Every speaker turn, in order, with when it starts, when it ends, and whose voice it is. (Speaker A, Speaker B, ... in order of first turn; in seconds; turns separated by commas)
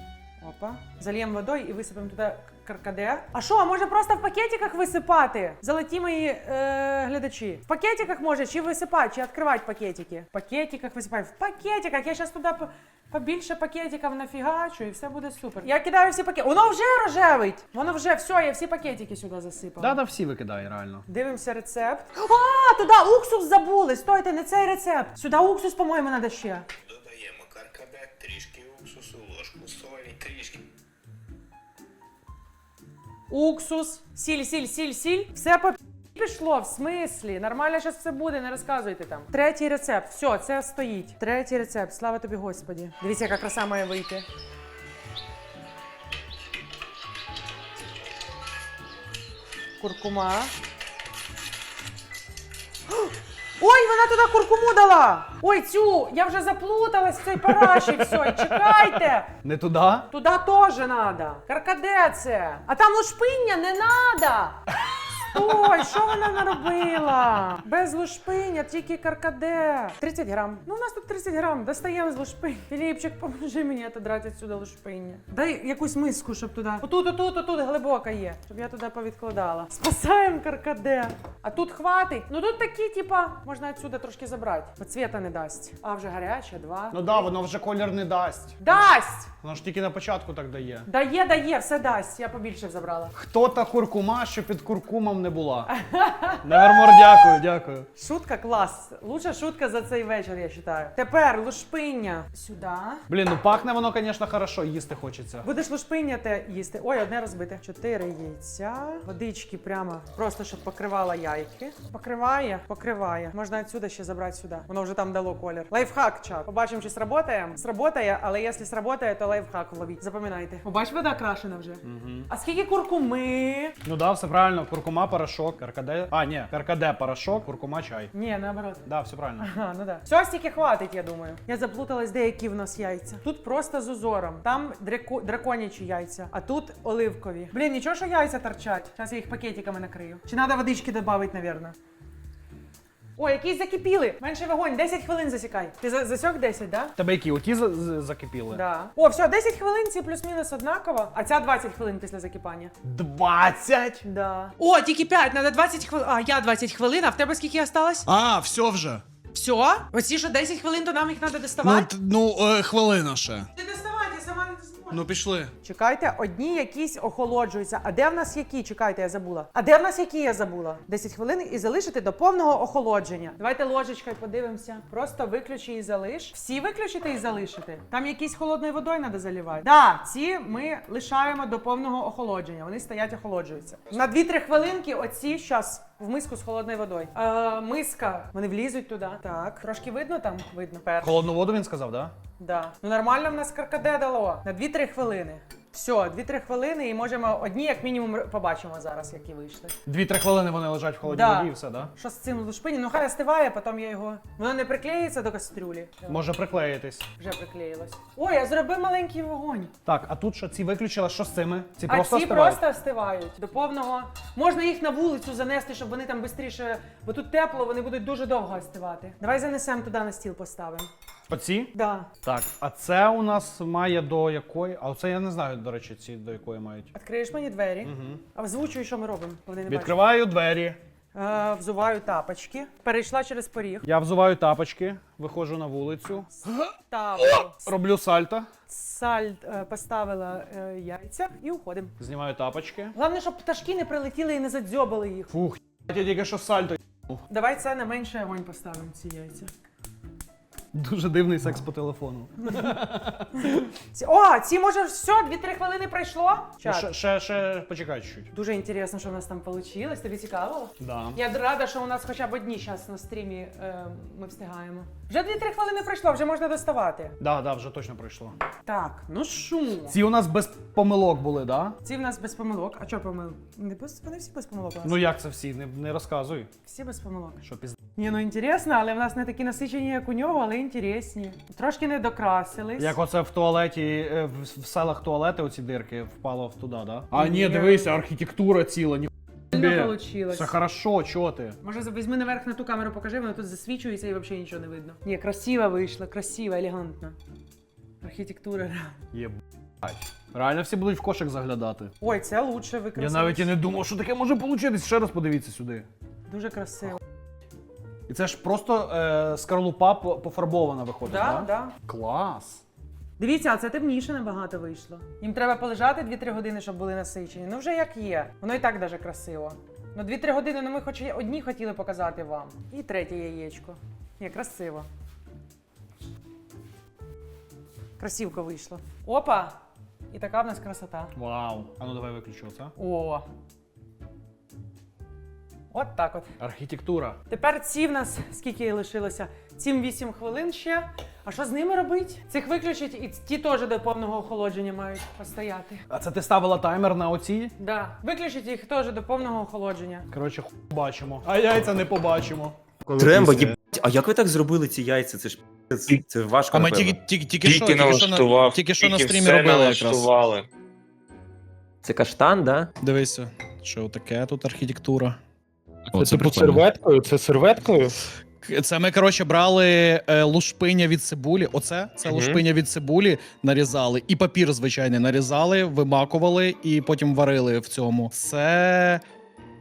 Speaker A: 0.4-20.0, Speaker B: 19.8-21.1, Speaker A: 21.1-26.7, Speaker C: 26.8-30.7, Speaker A: 33.3-44.3, Speaker A: 49.8-50.5, Speaker A: 53.6-59.3, Speaker B: 57.4-58.5, Speaker B: 59.4-60.1, Speaker A: 60.1-64.7, Speaker A: 65.2-87.3, Speaker B: 65.4-66.0, Speaker B: 86.9-88.8, Speaker A: 88.6-89.3, Speaker B: 89.4-90.9, Speaker A: 90.9-93.1, Speaker B: 93.1-95.7, Speaker A: 95.7-97.4, Speaker B: 96.4-97.9, Speaker A: 98.0-103.0, Speaker B: 103.1-105.5, Speaker A: 105.4-123.8, Speaker B: 121.8-122.3, Speaker B: 123.8-128.1, Speaker A: 128.1-128.8, Speaker B: 128.8-129.5, Speaker A: 129.4-141.8, Speaker A: 143.2-146.9, Speaker B: 147.0-148.6, Speaker A: 148.5-152.7, Speaker B: 152.8-154.0, Speaker A: 154.0-158.1, Speaker B: 158.1-159.0, Speaker A: 159.3-161.9, Speaker B: 161.6-163.5, Speaker A: 163.6-165.1, Speaker B: 164.9-165.5, Speaker A: 165.6-191.3, Speaker B: 191.0-192.1, Speaker A: 192.4-199.8, Speaker B: 199.9-201.9, Speaker A: 201.0-206.2, Speaker B: 206.1-207.1, Speaker A: 207.2-209.7, Speaker B: 209.9-212.6, Speaker A: 211.9-220.9, Speaker B: 221.3-226.9, Speaker A: 221.7-222.1, Speaker A: 226.9-230.0, Speaker B: 227.8-228.2, Speaker B: 229.7-230.8, Speaker A: 231.2-233.9, Speaker B: 233.8-236.6, Speaker A: 236.9-237.7, Speaker B: 237.3-238.5, Speaker A: 238.7-241.9, Speaker B: 242.0-242.9, Speaker A: 242.9-245.3, Speaker B: 245.3-247.2, Speaker A: 247.3-249.5, Speaker B: 250.7-253.7, Speaker A: 252.4-252.8, Speaker A: 253.4-256.9, Speaker B: 256.6-258.3, Speaker A: 258.3-267.1, Speaker B: 260.8-261.2, Speaker B: 267.2-268.4, Speaker A: 268.7-270.0, Speaker B: 269.9-271.8, Speaker A: 271.8-275.0, Speaker B: 274.8-276.5, Speaker A: 276.7-277.4, Speaker B: 277.4-277.8, Speaker A: 278.0-283.0, Speaker B: 282.8-291.6, Speaker A: 287.1-287.9, Speaker A: 289.5-290.6, Speaker A: 291.6-297.2, Speaker A: 298.0-299.0, Speaker B: 299.1-301.9, Speaker A: 302.0-303.6, Speaker B: 303.0-305.9, Speaker A: 306.3-307.0, Speaker B: 308.1-312.6, Speaker A: 311.1-311.7, Speaker A: 313.2-324.9, Speaker A: 328.0-329.6, Speaker A: 330.1-331.1, Speaker B: 331.1-332.7, Speaker A: 332.8-333.2, Speaker A: 335.7-336.3, Speaker B: 336.4-337.2, Speaker A: 337.3-345.9, Speaker B: 345.9-347.5, Speaker A: 347.6-350.1, Speaker B: 350.1-353.5, Speaker D: 352.9-357.0, Speaker B: 356.5-360.1, Speaker E: 357.4-360.3, Speaker D: 357.5-357.8, Speaker D: 358.8-360.4, Speaker D: 361.8-362.7, Speaker B: 362.8-365.2, Speaker B: 365.9-366.6, Speaker E: 365.9-367.9, Speaker B: 368.4-379.0, Speaker D: 372.1-372.4